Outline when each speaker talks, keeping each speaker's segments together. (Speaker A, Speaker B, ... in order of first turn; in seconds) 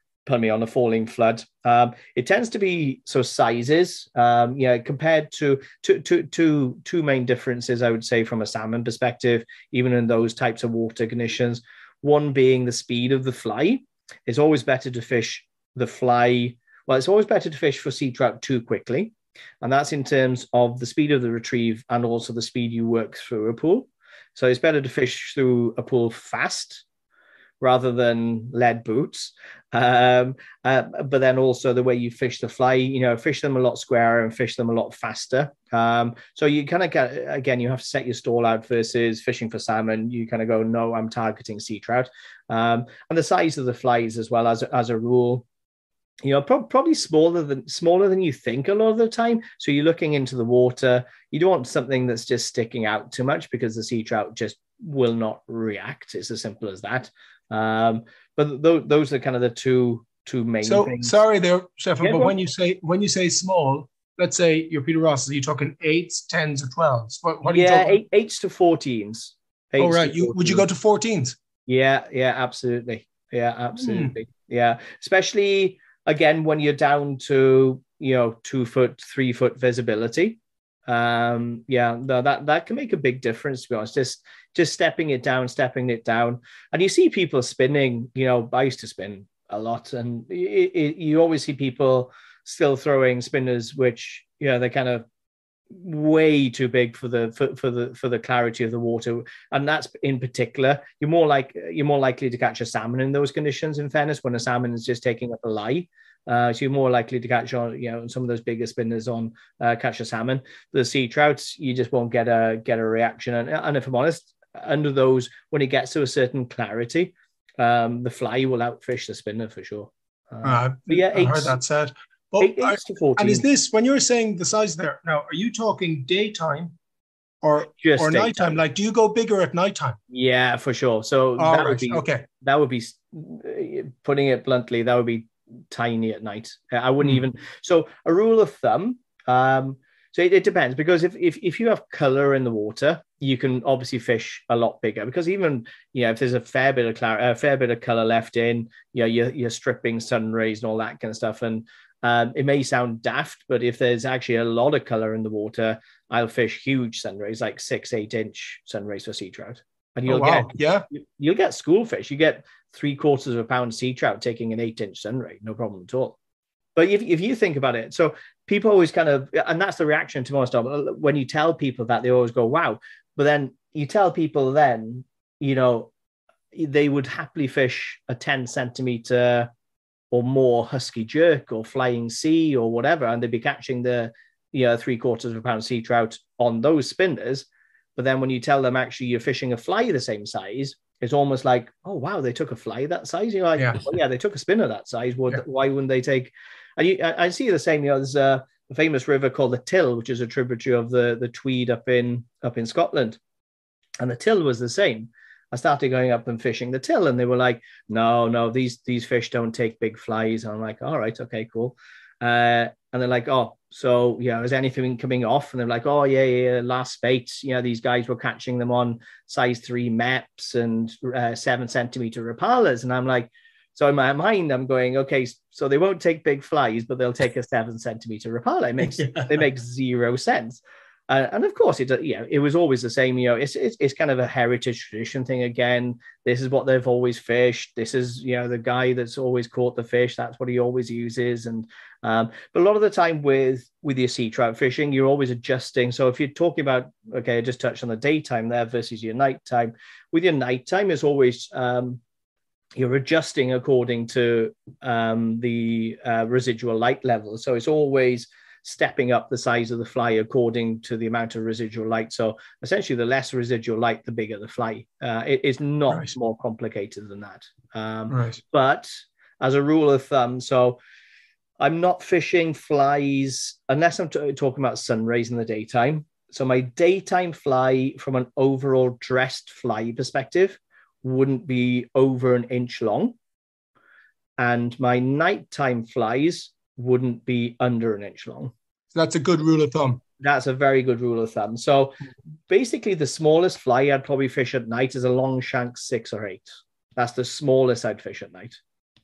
Speaker A: 0.2-26.8, 27.6-45.5, 46.2-61.1, 62.0-62.3, 67.4-70.7, 71.7-95.0, 95.7-121.6, 122.4-123.4, 127.7-128.6, 130.1-166.2, 166.8-175.9, 176.5-179.5, 180.1-203.2, 204.0-252.0, 252.8-270.8, 271.6-283.1, 284.4-288.5, 290.2-292.0, 292.5-298.6
Speaker B: 60.6-68.0, 69.8-71.4, 73.8-74.1, 120.4-126.7, 127.4-130.0, 131.4-132.2, 160.1-160.8, 229.0-229.3, 268.1-268.4, 288.9-290.0